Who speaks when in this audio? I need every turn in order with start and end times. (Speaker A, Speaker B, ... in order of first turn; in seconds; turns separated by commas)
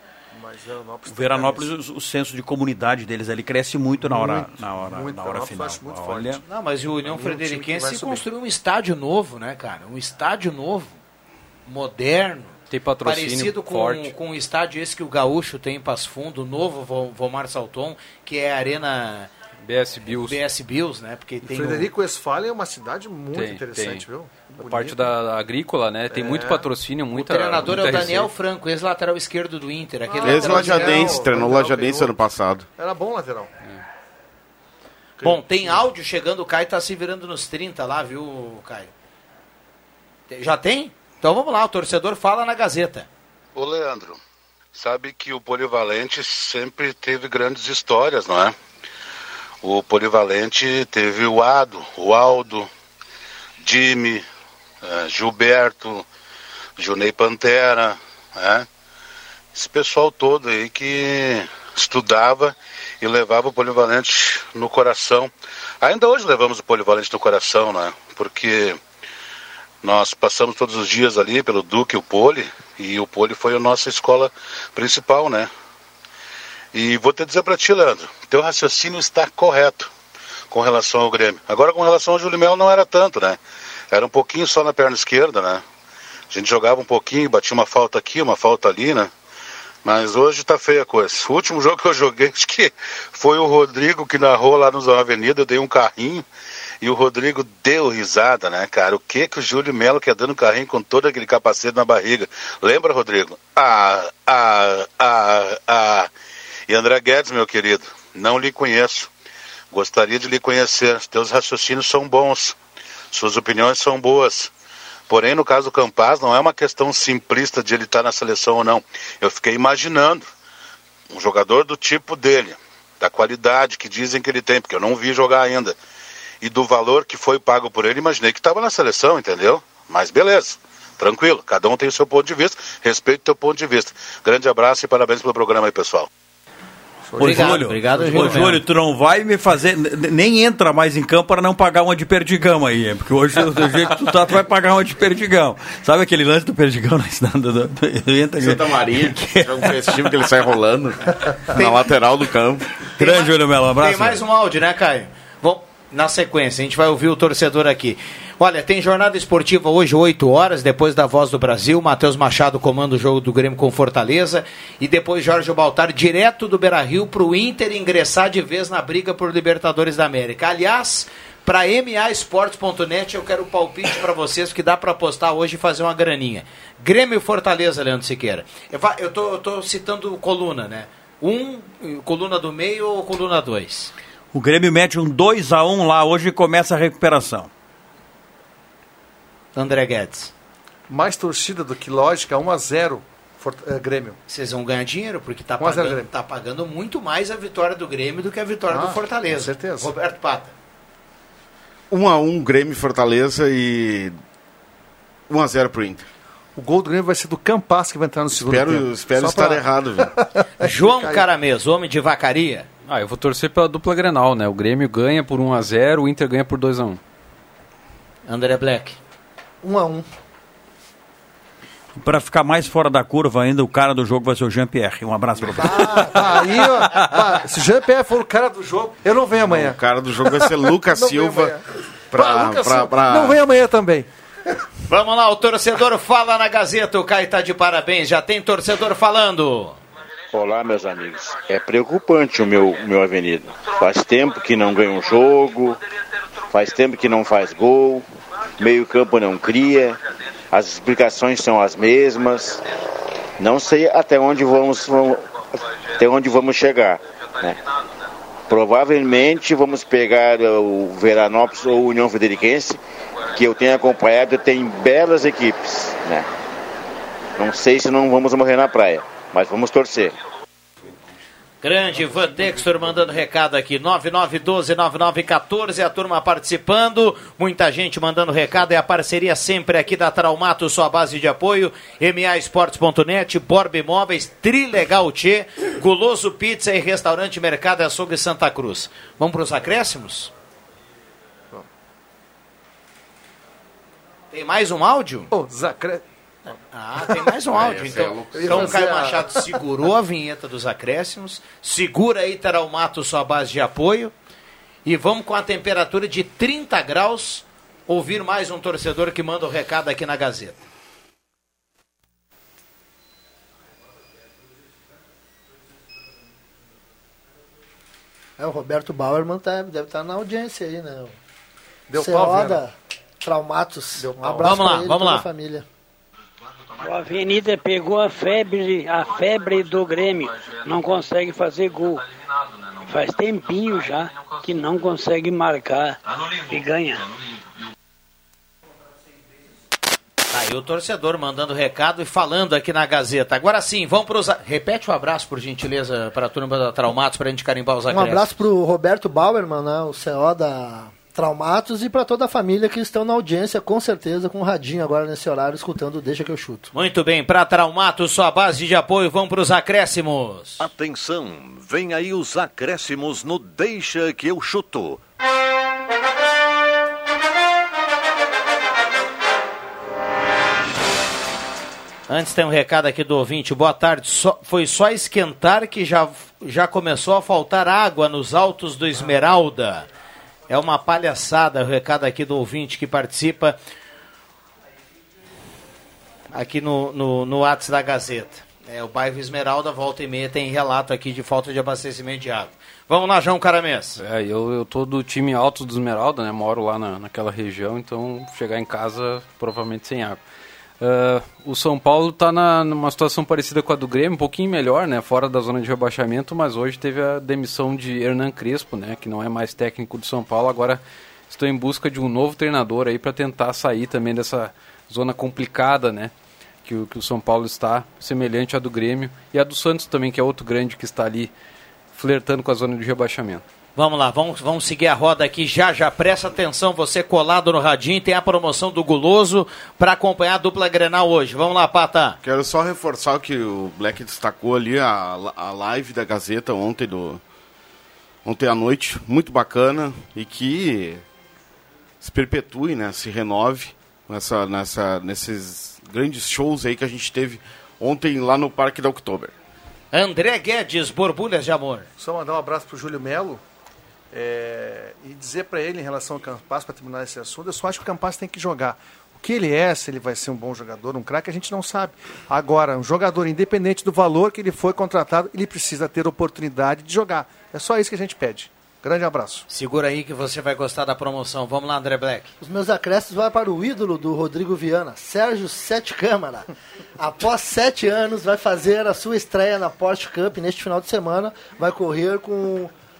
Speaker A: 0.3-1.7, Speaker B: 1.1-6.4, Speaker A: 4.0-6.4, Speaker C: 6.4-11.0, Speaker A: 7.0-8.3, Speaker C: 11.7-19.3, Speaker D: 12.7-14.1, Speaker D: 19.6-20.4, Speaker C: 20.1-21.9, Speaker A: 21.4-25.1, Speaker D: 23.3-28.3, Speaker A: 26.1-26.7, Speaker C: 27.1-31.1, Speaker A: 30.1-32.1, Speaker E: 30.2-32.6, Speaker A: 32.8-33.5, Speaker A: 35.2-35.8, Speaker C: 35.2-38.9, Speaker C: 40.3-43.1, Speaker F: 43.5-44.2, Speaker F: 44.7-48.5, Speaker F: 49.6-52.7, Speaker F: 53.6-54.2, Speaker F: 54.8-56.0, Speaker F: 56.8-58.7, Speaker F: 59.5-68.8, Speaker F: 69.8-75.5, Speaker F: 76.7-79.9, Speaker F: 80.5-83.4, Speaker F: 83.9-85.6, Speaker F: 86.3-89.1, Speaker F: 89.8-96.3, Speaker F: 96.8-106.1, Speaker F: 106.7-109.1, Speaker F: 109.7-112.5, Speaker F: 113.1-114.5, Speaker F: 115.1-120.3, Speaker F: 121.1-125.8, Speaker F: 126.4-136.1, Speaker A: 137.1-138.6, Speaker B: 137.2-150.1, Speaker C: 137.2-138.6, Speaker E: 148.4-152.8, Speaker C: 151.6-151.8, Speaker B: 152.9-154.2, Speaker C: 153.0-183.9, Speaker B: 184.3-187.5, Speaker C: 189.6-190.3, Speaker A: 190.9-194.2, Speaker C: 194.3-200.5, Speaker A: 195.6-196.1, Speaker A: 198.7-199.9, Speaker E: 201.9-204.2, Speaker E: 205.3-206.1, Speaker A: 206.6-211.2, Speaker E: 208.3-210.1, Speaker C: 210.6-212.7, Speaker D: 212.9-217.0, Speaker C: 218.3-219.0, Speaker G: 219.6-220.1, Speaker B: 222.0-227.3, Speaker A: 225.6-234.1, Speaker E: 229.5-231.6, Speaker E: 232.1-233.4, Speaker C: 234.9-239.8, Speaker H: 240.3-245.8, Speaker H: 246.5-248.1, Speaker H: 248.6-250.0, Speaker H: 250.5-252.6, Speaker H: 253.4-255.3, Speaker H: 255.9-257.6, Speaker H: 258.5-262.8, Speaker H: 263.3-266.3, Speaker H: 267.4-270.1, Speaker C: 271.6-290.3, Speaker C: 294.3-295.3, Speaker A: 295.3-296.0, Speaker C: 296.7-304.1, Speaker E: 297.8-298.4, Speaker A: 298.3-299.6, Speaker C: 304.8-310.6, Speaker G: 318.4-321.1, Speaker A: 321.9-322.6, Speaker G: 322.0-325.6, Speaker A: 323.9-324.6, Speaker C: 324.4-325.3, Speaker I: 326.8-332.0, Speaker I: 332.8-337.1, Speaker C: 340.3-348.4, Speaker G: 347.9-356.7, Speaker C: 356.7-360.6, Speaker J: 360.6-365.0, Speaker C: 372.1-379.9, Speaker C: 380.5-383.6, Speaker C: 386.3-394.0, Speaker D: 394.0-400.2, Speaker D: 400.8-416.1, Speaker D: 416.6-421.3, Speaker D: 421.9-423.4, Speaker C: 423.8-432.2, Speaker E: 432.2-437.2, Speaker E: 438.2-441.0, Speaker E: 442.0-449.3, Speaker C: 449.9-451.9, Speaker A: 452.0-453.4, Speaker A: 454.1-469.4, Speaker C: 469.5-472.3, Speaker G: 472.4-482.7